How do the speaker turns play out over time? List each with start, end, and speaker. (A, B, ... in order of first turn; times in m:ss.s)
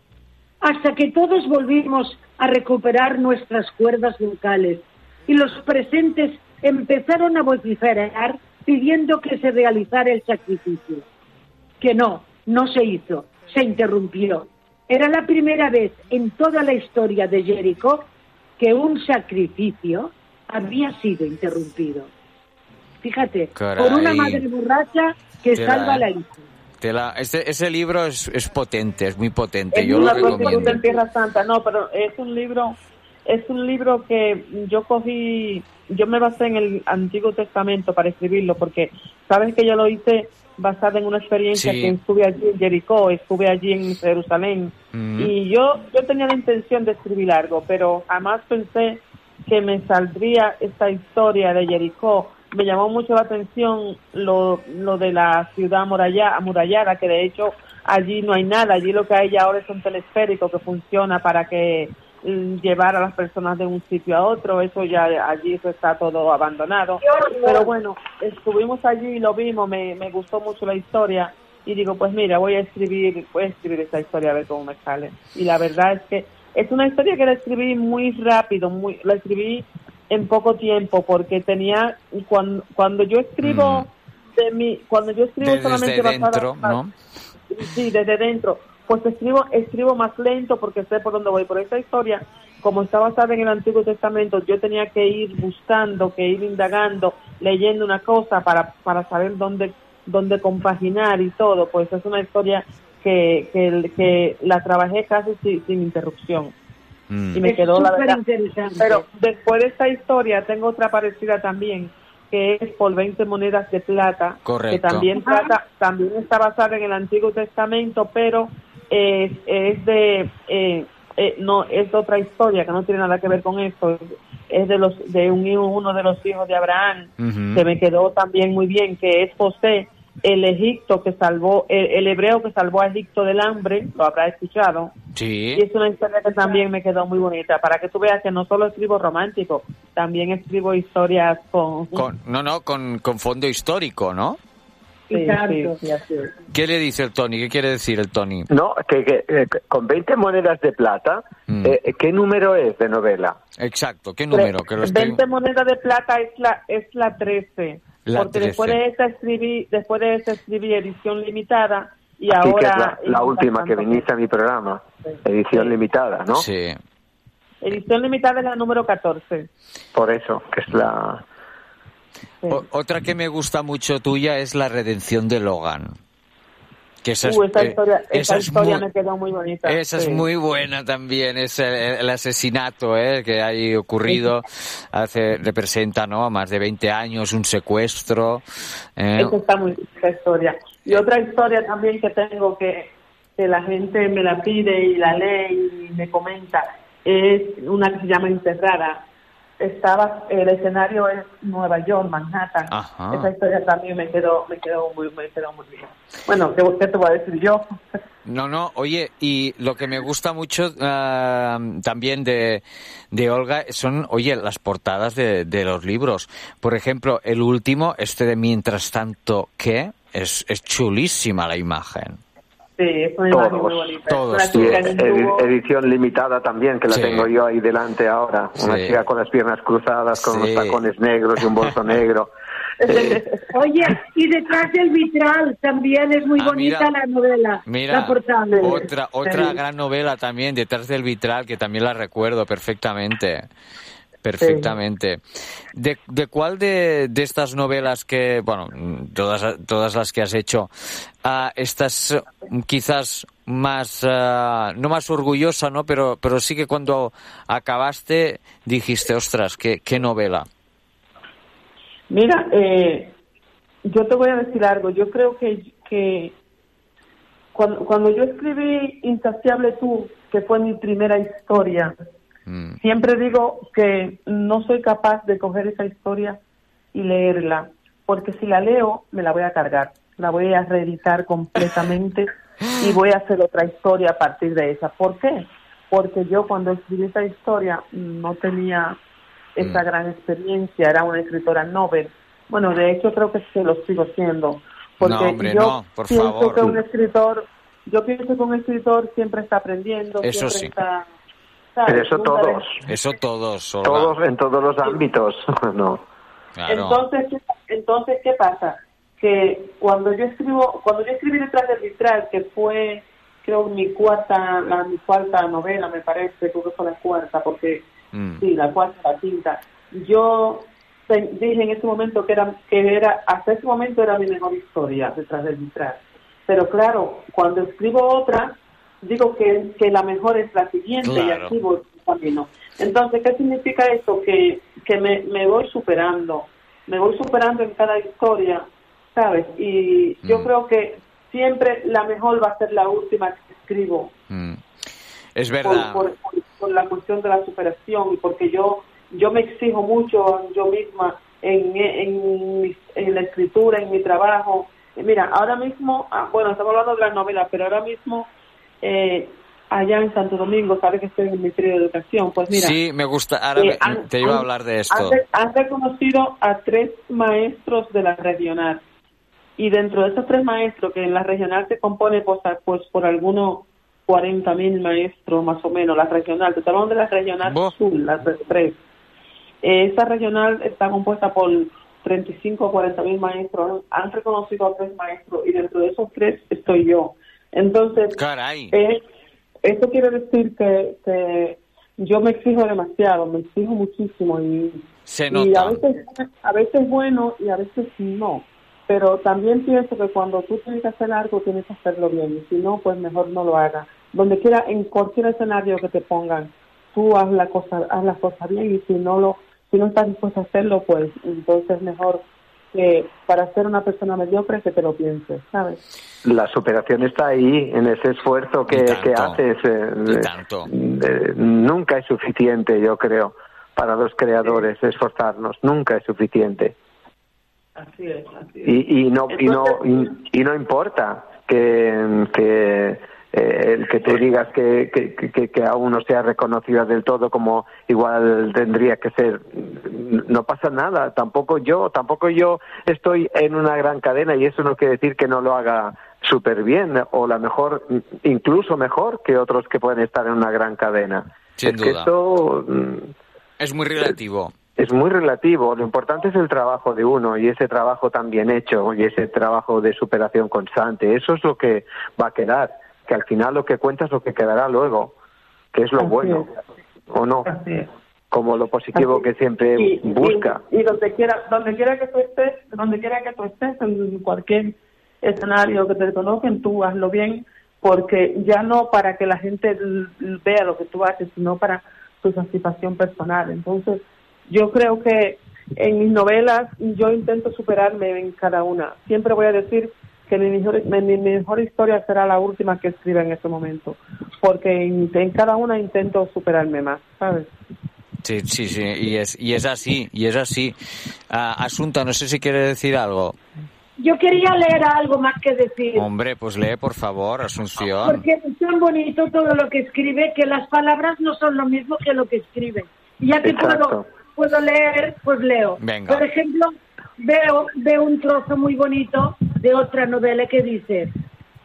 0:00.6-0:11.0 A
0:11.8-0:18.1 A
0:18.6-0:22.1 A
0:23.0-0:26.3 A
0:23.6-0:24.4 B
0:25.5-0:26.0 B
0:26.8-0:30.8 B
0:29.7-1:26.8 C
0:30.1-0:30.7 A
0:41.5-0:42.0 B
0:44.9-0:45.3 B
1:07.0-1:07.7 A
1:23.4-1:23.9 B
1:25.4-1:26.9 B
1:27.5-1:46.5 C
1:47.1-1:47.4 B
1:47.3-1:48.2 C
1:47.4-1:49.0 A
1:48.8-2:14.9 C
1:54.5-1:55.1 B
1:55.2-1:55.5 A
2:07.2-2:07.6 B
2:15.2-2:15.6 B
2:15.6-2:22.1 C
2:22.0-2:24.4 B
2:25.1-2:25.8 A
2:25.1-2:26.3 C
2:26.5-2:28.5 B
2:28.5-2:33.4 D
2:31.5-2:31.8 B
2:33.6-2:35.2 B
2:34.3-2:44.1 C
2:38.1-2:38.8 B
2:42.3-2:46.5 D
2:45.1-2:45.8 C
2:46.3-2:46.8 B
2:47.6-2:49.5 C
2:49.9-2:51.2 D
2:52.5-2:56.0 B
2:57.0-2:58.8 B
2:57.2-3:00.2 C
2:59.7-3:08.4 B
3:09.0-3:09.4 B
3:09.2-3:19.0 C
3:19.6-3:27.8 C
3:22.7-3:23.3 B
3:28.3-3:42.2 B
3:42.8-3:45.5 C
3:43.3-3:44.0 D
3:44.1-3:45.0 B
3:44.5-3:52.3 D
3:46.9-3:47.3 B
3:48.6-3:49.0 B
3:50.2-3:50.8 B
3:52.8-3:53.5 C
3:52.8-3:53.2 D
3:53.5-3:58.7 A
3:56.4-3:56.9 B
3:57.7-4:03.5 B
3:58.5-3:59.6 C
4:04.2-4:05.2 B
4:04.4-4:04.7 C
4:05.8-4:10.7 B
4:11.2-4:20.5 B
4:22.1-4:23.2 C
4:23.8-4:26.4 C
4:27.5-4:31.9 C
4:32.5-4:32.8 B
4:32.8-4:36.4 C
4:36.9-4:49.0 C
4:49.6-5:01.1 C
4:55.0-4:56.8 B
5:00.2-5:00.7 B
5:01.8-5:02.6 C
5:01.9-5:02.8 D
5:02.9-5:04.1 B
5:03.8-5:06.0 D
5:06.6-5:07.0 B
5:06.7-5:17.9 C
5:18.1-5:18.4 B
5:18.4-5:44.1 C
5:31.0-5:31.6 B
5:40.2-5:40.5 B
5:44.3-5:44.6 B
5:45.4-5:46.1 B
5:45.6-5:58.3 C
5:58.8-6:02.8 C
6:02.5-6:05.2 B
6:03.6-6:08.8 C
6:09.6-6:18.8 C
6:17.4-6:17.7 B
6:19.6-6:28.2 C
6:28.2-6:28.7 B
6:28.7-6:29.0 C
6:29.6-6:55.8 C
6:35.1-6:35.8 B
6:56.2-7:06.8 D
6:58.7-6:59.4 B
7:00.1-7:00.7 B
7:07.8-7:08.8 C
7:08.6-7:33.1 D
7:09.3-7:10.1 C
7:31.6-7:32.1 B
7:33.6-7:34.5 B
7:34.8-7:45.2 D
7:45.7-7:46.5 D
7:46.0-7:46.5 C
7:47.1-7:47.5 D
7:47.5-7:47.9 C
7:48.3-7:50.6 D
7:49.0-7:49.2 C
7:49.8-8:17.5 C
8:18.2-8:20.8 B
8:21.3-8:23.4 B
8:24.0-8:26.1 A
8:26.0-8:28.2 B
8:28.0-8:41.1 A
8:33.4-8:34.0 D
8:35.8-8:36.3 B